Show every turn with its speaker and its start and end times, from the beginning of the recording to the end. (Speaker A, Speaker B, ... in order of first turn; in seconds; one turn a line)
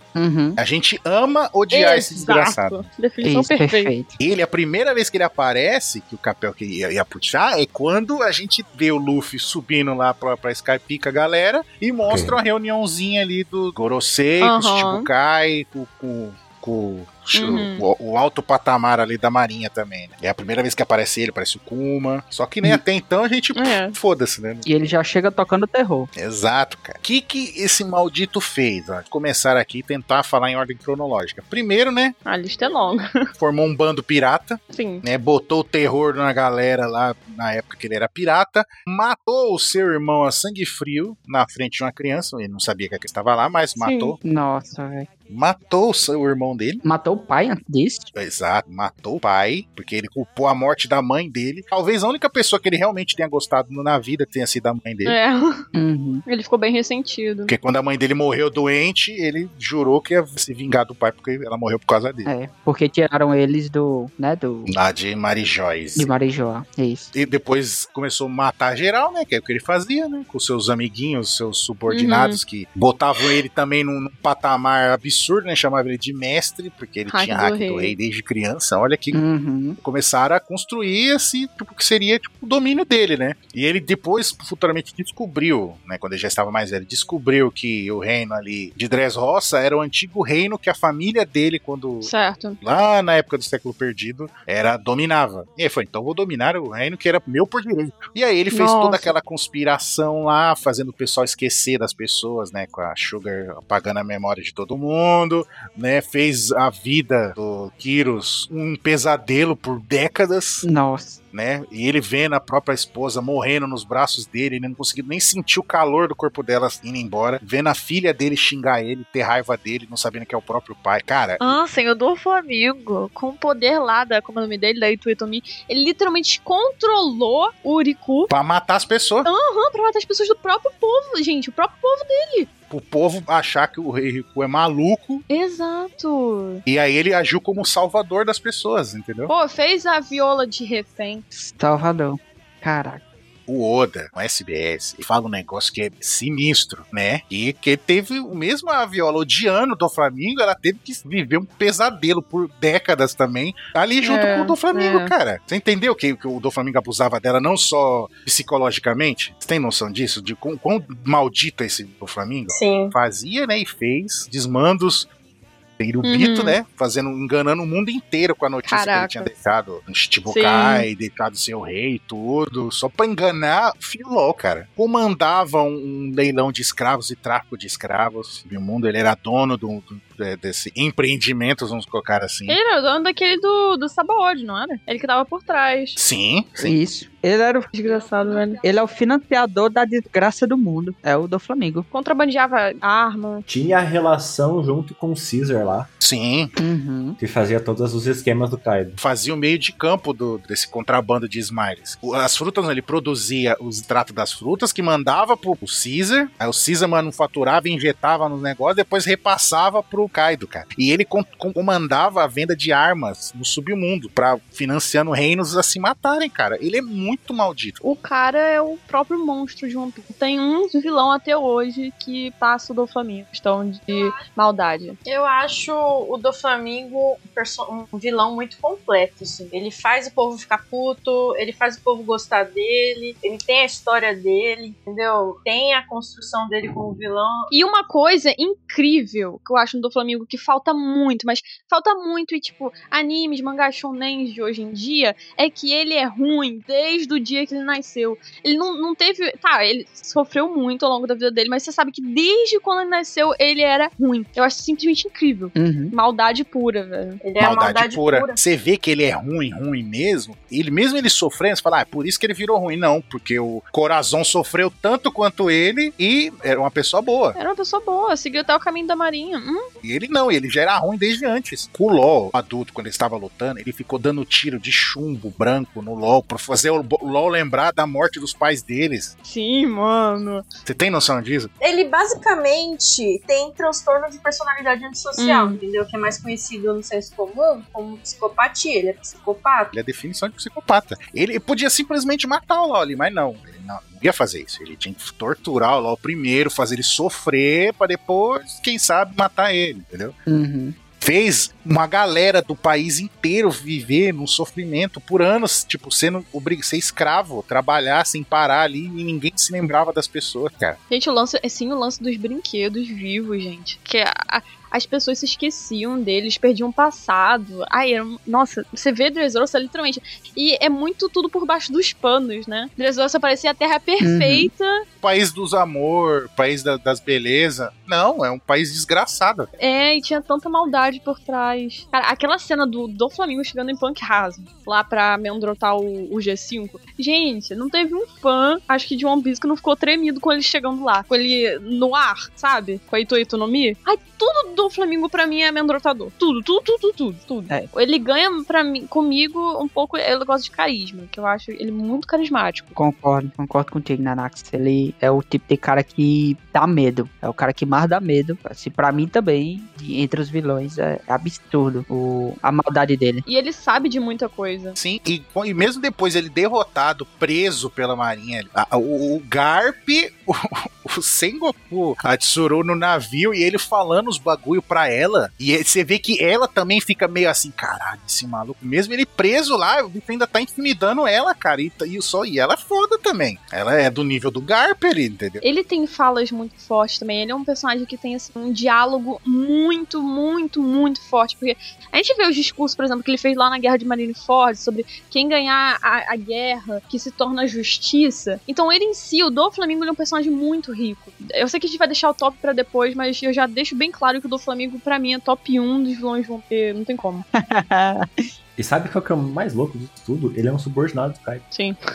Speaker A: 0.1-0.6
Speaker B: 0.6-2.9
Speaker C: 1.7-3.9
Speaker A: 3.2-4.2
Speaker B: 4.2-24.6
Speaker D: 12.1-12.4
Speaker C: 14.4-15.1
Speaker C: 17.3-17.8
Speaker C: 23.5-24.0
Speaker A: 24.6-26.1
Speaker B: 26.1-32.1
Speaker C: 32.2-33.3
Speaker B: 33.4-44.2
Speaker C: 34.7-35.0
Speaker C: 43.8-44.1
Speaker A: 44.2-45.1
Speaker B: 45.3-46.8
Speaker A: 46.8-48.1
Speaker B: 48.1-55.1
Speaker C: 55.0-55.6
Speaker A: 55.7-56.2
Speaker C: 56.3-57.5
Speaker B: 57.5-62.3
Speaker A: 62.3-64.7
Speaker B: 64.7-66.1
Speaker A: 66.0-67.1
Speaker B: 67.1-79.2
Speaker C: 71.9-72.4
Speaker C: 77.1-77.9
Speaker A: 79.1-79.8
Speaker B: 79.8-110.7
Speaker C: 92.0-92.6
Speaker C: 98.5-99.1
Speaker A: 110.6-111.2
Speaker B: 111.3-121.5
Speaker C: 121.4-128.3
Speaker B: 128.3-129.3
Speaker C: 129.2-132.5
Speaker B: 132.7-135.2
Speaker C: 135.3-136.6
Speaker B: 136.7-139.3
Speaker C: 139.3-141.2
Speaker A: 141.3-143.0
Speaker B: 143.5-165.1
Speaker C: 154.0-155.1
Speaker E: 162.5-162.9
Speaker B: 165.8-182.6
Speaker C: 166.0-166.6
Speaker C: 168.6-169.3
Speaker C: 170.3-170.9
Speaker C: 182.5-186.0
Speaker B: 186.0-186.8
Speaker A: 186.6-187.7
Speaker C: 187.7-188.6
Speaker A: 188.6-191.8
Speaker C: 191.9-193.4
Speaker D: 193.4-195.9
Speaker B: 196.0-196.5
Speaker A: 196.6-197.2
Speaker D: 197.2-199.0
Speaker B: 199.0-217.8
Speaker C: 217.8-225.0
Speaker E: 223.9-224.2
Speaker E: 225.1-237.5
Speaker C: 237.5-257.2
Speaker A: 255.6-255.9
Speaker E: 257.2-258.4
Speaker B: 257.4-267.4
Speaker C: 267.3-269.7
Speaker B: 269.8-279.1
Speaker C: 279.2-280.5
Speaker B: 280.6-281.5
Speaker E: 281.6-289.7
Speaker C: 285.2-285.6
Speaker B: 289.7-300.1
Speaker A: 300.3-300.7
Speaker B: 301.0-310.8
Speaker C: 310.9-324.8
Speaker A: 324.0-324.5
Speaker B: 325.0-329.5
Speaker C: 329.6-352.7
Speaker A: 352.7-363.2
Speaker C: 363.3-364.8
Speaker B: 364.8-385.4
Speaker C: 385.4-407.2
Speaker A: 407.4-408.2
Speaker D: 408.6-411.4
Speaker C: 411.5-411.8